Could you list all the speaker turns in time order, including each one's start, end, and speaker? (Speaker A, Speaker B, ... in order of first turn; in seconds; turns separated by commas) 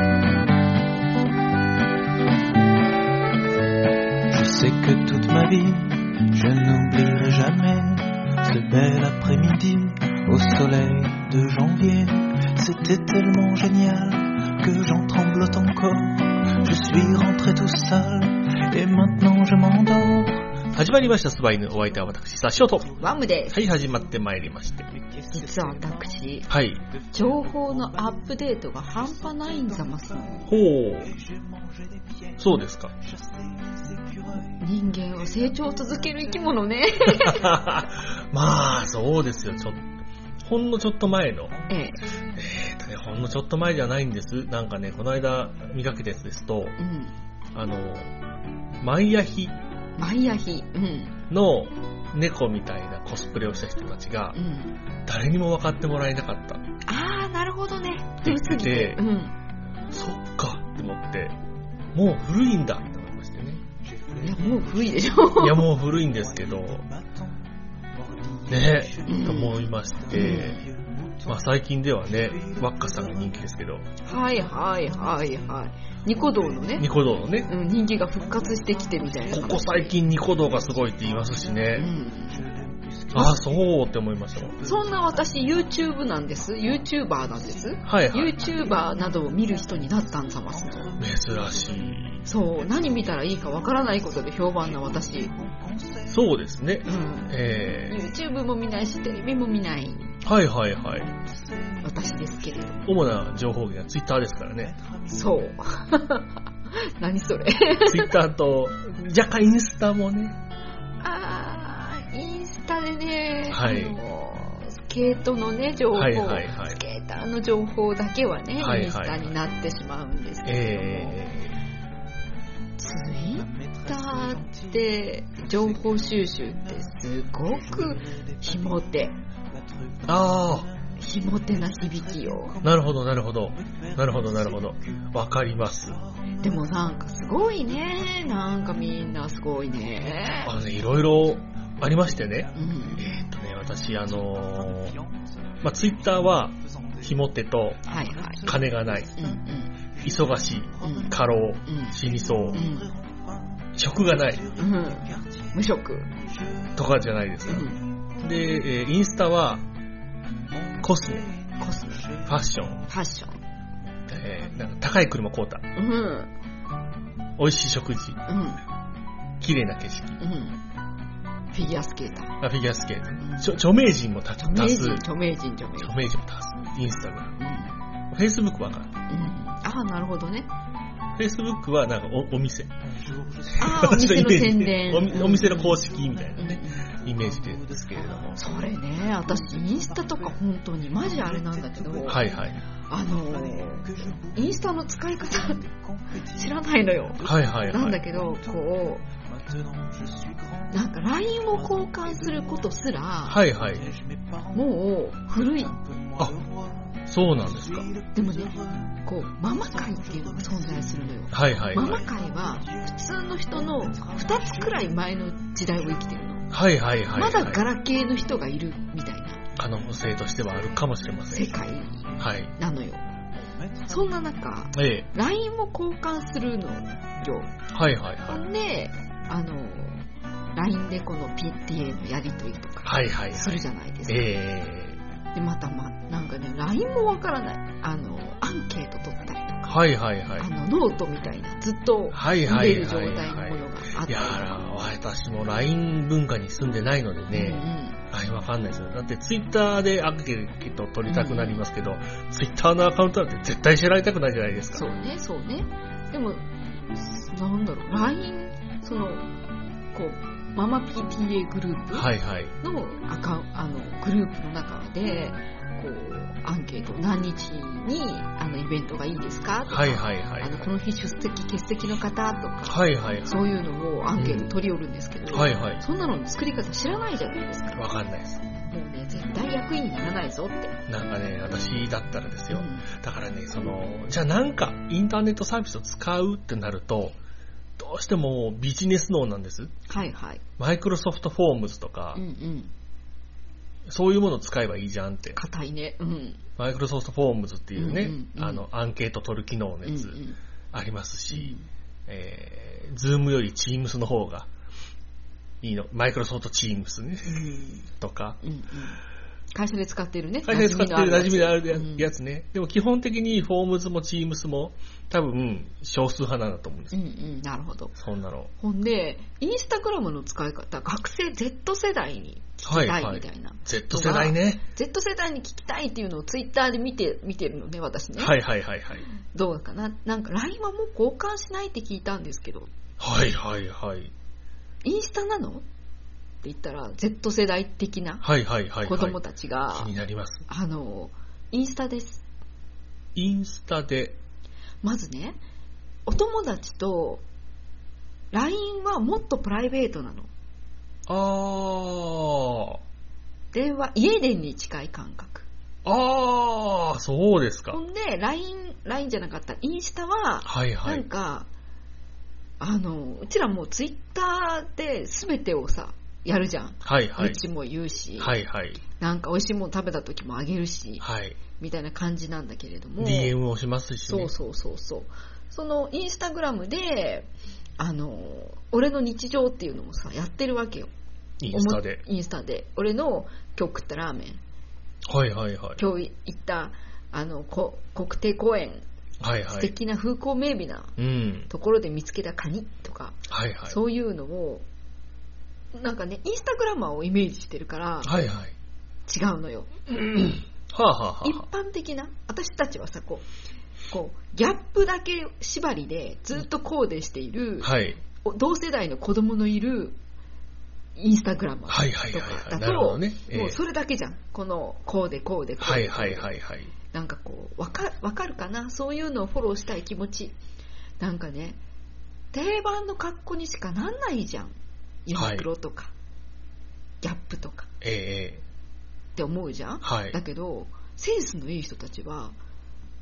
Speaker A: 4.3-36.8, Speaker B: 20.7-22.9, Speaker C: 23.0-23.6, Speaker B: 23.5-24.9, Speaker C: 25.3-26.5, Speaker B: 26.5-26.8, Speaker C: 27.1-30.5, Speaker B: 30.5-31.1, Speaker B: 32.4-32.9, Speaker C: 34.4-37.5, Speaker B: 37.1-39.8, Speaker B: 40.4-41.5, Speaker A: 41.5-42.5, Speaker C: 41.7-42.0, Speaker B: 42.3-46.8, Speaker C: 46.8-47.1, Speaker B: 47.5-48.1, Speaker B: 48.8-49.5, Speaker C: 50.0-51.2, Speaker B: 51.3-54.4, Speaker C: 54.3-54.8, Speaker B: 55.0-56.6, Speaker C: 56.9-59.3, Speaker B: 58.2-59.0, Speaker B: 59.9-61.4, Speaker B: 61.9-63.6, Speaker A: 63.8-65.3, Speaker C: 64.2-65.7, Speaker B: 65.4-66.8, Speaker A: 65.9-96.3, Speaker B: 68.5-70.6, Speaker C: 69.0-70.6, Speaker B: 71.3-73.9, Speaker C: 74.0-76.9, Speaker B: 76.8-77.5, Speaker C: 77.5-80.0, Speaker B: 79.3-81.9, Speaker C: 81.7-82.4, Speaker B: 83.1-84.5, Speaker C: 84.6-90.9, Speaker B: 87.8-88.4, Speaker B: 91.0-92.2, Speaker C: 92.2-95.3, Speaker B: 96.1-98.0, Speaker C: 96.8-100.2, Speaker B: 100.2-101.1, Speaker A: 100.9-103.2, Speaker C: 101.8-102.8, Speaker B: 102.8-104.7, Speaker A: 104.4-105.6, Speaker C: 105.1-108.2, Speaker B: 107.8-110.3, Speaker C: 111.0-121.2, Speaker B: 113.5-114.0, Speaker B: 115.9-116.8, Speaker B: 118.6-119.3, Speaker B: 120.4-121.5, Speaker C: 122.8-129.2, Speaker A: 123.2-137.1, Speaker B: 130.1-130.7, Speaker C: 131.0-132.6, Speaker B: 132.6-136.0, Speaker C: 136.4-140.5, Speaker A: 140.0-140.5, Speaker B: 140.4-144.9, Speaker A: 141.7-143.3, Speaker C: 142.5-143.2, Speaker A: 143.8-147.3, Speaker B: 145.6-147.8, Speaker A: 147.8-151.3, Speaker C: 147.9-148.4, Speaker B: 148.4-149.1, Speaker C: 149.2-149.7, Speaker B: 150.0-152.6, Speaker C: 150.8-152.0, Speaker A: 151.9-158.6, Speaker C: 152.5-152.9, Speaker B: 153.8-154.4, Speaker C: 154.6-156.1, Speaker B: 156.8-157.7, Speaker C: 157.5-157.8, Speaker B: 158.2-159.6, Speaker A: 160.5-162.9, Speaker B: 160.8-161.3, Speaker C: 161.6-162.1, Speaker B: 162.2-162.8, Speaker C: 162.9-163.4, Speaker B: 164.1-165.6, Speaker C: 165.8-166.3, Speaker B: 167.4-168.2, Speaker C: 168.2-168.6, Speaker B: 169.4-170.2, Speaker C: 170.2-170.6, Speaker C: 171.5-172.3, Speaker B: 172.4-175.1, Speaker C: 173.2-173.6, Speaker C: 174.4-176.0, Speaker B: 175.8-177.4, Speaker C: 177.4-177.8, Speaker B: 178.1-178.9, Speaker C: 179.1-180.5, Speaker B: 181.2-182.7, Speaker A: 182.8-184.1, Speaker C: 183.6-185.8, Speaker B: 183.6-188.4, Speaker A: 185.0-204.7, Speaker C: 186.3-186.9, Speaker C: 188.3-192.2, Speaker B: 192.1-192.6, Speaker C: 192.9-195.6, Speaker C: 196.3-199.0, Speaker B: 197.2-198.0, Speaker C: 200.7-203.4, Speaker B: 203.2-203.8, Speaker C: 204.5-205.8, Speaker A: 205.4-216.2, Speaker B: 207.1-207.9, Speaker C: 208.1-216.5, Speaker B: 211.3-212.0, Speaker B: 216.5-217.6, Speaker C: 217.1-219.4, Speaker B: 219.6-221.6, Speaker A: 220.4-220.9, Speaker C: 221.3-223.0, Speaker A: 222.0-222.3, Speaker B: 222.2-222.5, Speaker A: 223.3-224.3, Speaker C: 223.9-227.6, Speaker B: 224.7-225.1, Speaker B: 227.7-228.4, Speaker C: 228.3-234.3, Speaker B: 232.8-235.0, Speaker C: 235.3-239.8, Speaker B: 239.7-240.5, Speaker C: 240.4-244.6, Speaker B: 242.1-254.8, Speaker C: 247.3-248.0, Speaker C: 251.1-251.6, Speaker C: 254.7-259.3, Speaker C: 259.9-262.1, Speaker B: 261.9-262.5, Speaker C: 262.6-277.9, Speaker B: 269.7-270.7, Speaker B: 272.7-273.4, Speaker B: 274.2-274.5, Speaker B: 275.3-275.8, Speaker B: 277.7-278.4, Speaker C: 278.5-280.8, Speaker B: 280.9-287.2, Speaker C: 282.5-282.9, Speaker B: 287.8-289.7, Speaker C: 289.9-290.4, Speaker B: 290.6-292.2, Speaker C: 292.1-292.7, Speaker B: 293.9-295.4, Speaker C: 295.4-296.4, Speaker B: 296.6-300.2, Speaker C: 297.8-298.6, Speaker C: 299.9-300.4, Speaker B: 300.7-301.5, Speaker C: 301.3-301.6, Speaker B: 302.1-304.5, Speaker B: 305.6-308.4, Speaker C: 307.3-307.8, Speaker C: 308.4-309.0, Speaker C: 309.5-312.1, Speaker B: 310.4-316.9, Speaker C: 316.9-317.9, Speaker B: 317.9-318.5, Speaker C: 318.6-328.4, Speaker B: 322.6-324.6, Speaker B: 328.2-329.1, Speaker C: 329.3-332.7, Speaker B: 333.0-334.1, Speaker C: 334.8-335.6, Speaker C: 336.4-338.2, Speaker B: 338.2-339.2, Speaker C: 338.8-339.9, Speaker B: 339.7-340.4, Speaker C: 340.5-342.2, Speaker B: 343.1-344.2, Speaker C: 344.8-345.4, Speaker C: 346.1-347.2, Speaker C: 348.3-350.3, Speaker B: 351.1-352.8, Speaker C: 353.5-355.4, Speaker B: 355.8-357.8, Speaker C: 357.7-361.5, Speaker B: 360.4-361.0, Speaker C: 362.6-368.3, Speaker B: 366.8-367.4, Speaker B: 368.2-368.8, Speaker C: 369.0-371.1, Speaker B: 371.0-371.4, Speaker C: 371.6-373.4, Speaker B: 373.0-374.3, Speaker C: 374.0-380.9, Speaker B: 381.4-382.0, Speaker C: 381.5-384.4, Speaker B: 385.1-385.8, Speaker C: 385.8-388.8, Speaker B: 389.2-389.7, Speaker C: 389.5-390.9, Speaker B: 391.0-391.5, Speaker C: 391.5-394.6, Speaker B: 393.3-393.8, Speaker C: 395.7-398.3, Speaker B: 398.0-398.5, Speaker C: 399.1-399.8, Speaker B: 399.9-401.4, Speaker C: 401.2-403.3, Speaker C: 403.9-410.0, Speaker B: 407.6-408.0, Speaker C: 410.9-416.3, Speaker B: 411.7-413.6, Speaker B: 415.6-416.7, Speaker C: 416.9-420.3, Speaker C: 421.0-421.6, Speaker C: 422.3-425.9, Speaker B: 425.1-425.4, Speaker C: 427.0-427.7, Speaker B: 427.8-428.4, Speaker C: 429.1-432.4, Speaker B: 429.8-430.1